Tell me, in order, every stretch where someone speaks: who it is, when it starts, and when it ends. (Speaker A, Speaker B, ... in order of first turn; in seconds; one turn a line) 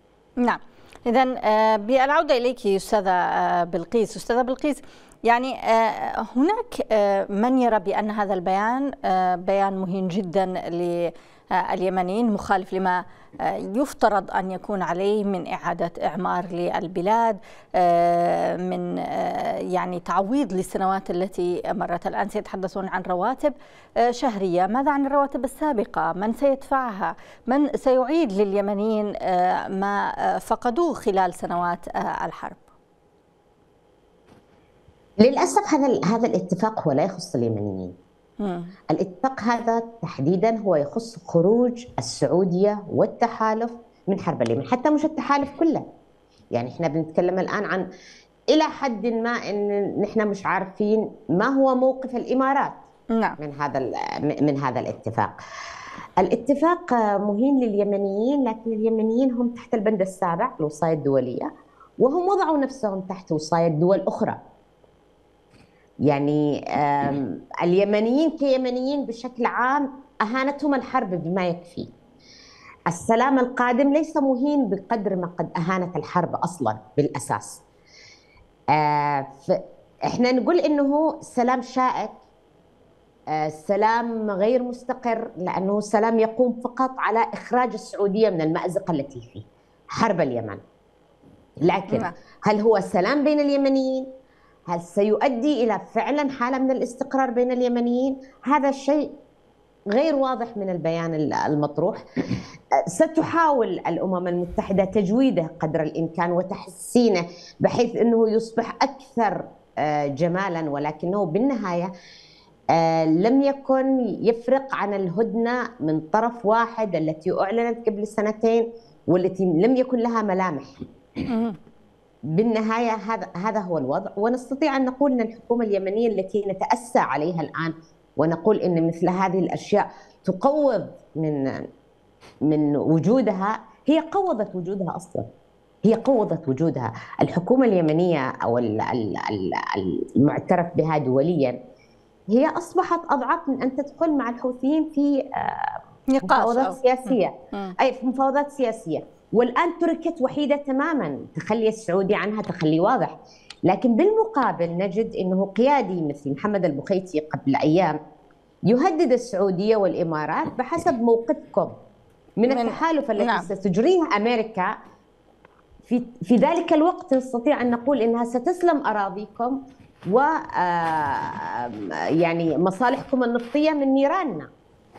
Speaker A: 0.4-32.6
Speaker B: 35.2-38.0
Speaker A: 38.4-38.7
Speaker B: 38.9-45.9
Speaker B: 46.5-47.9
Speaker B: 48.5-52.8
Speaker B: 53.4-55.4
Speaker B: 56.2-61.5
Speaker B: 62.0-64.4
Speaker B: 66.1-71.9
Speaker B: 72.9-77.6
Speaker B: 78.7-82.2
Speaker B: 83.3-90.6
Speaker B: 91.6-94.1
Speaker B: 94.7-99.1
Speaker B: 99.9-111.9
Speaker B: 112.7-120.8
Speaker A: 121.3-121.6
Speaker B: 122.3-131.7
Speaker B: 132.5-135.3
Speaker B: 135.8-141.6
Speaker B: 142.3-153.2
Speaker A: 146.1-147.8
Speaker B: 153.7-158.0
Speaker B: 158.7-161.7
Speaker B: 162.4-164.7
Speaker A: 162.5-163.5
Speaker B: 165.9-169.6
Speaker B: 170.1-174.5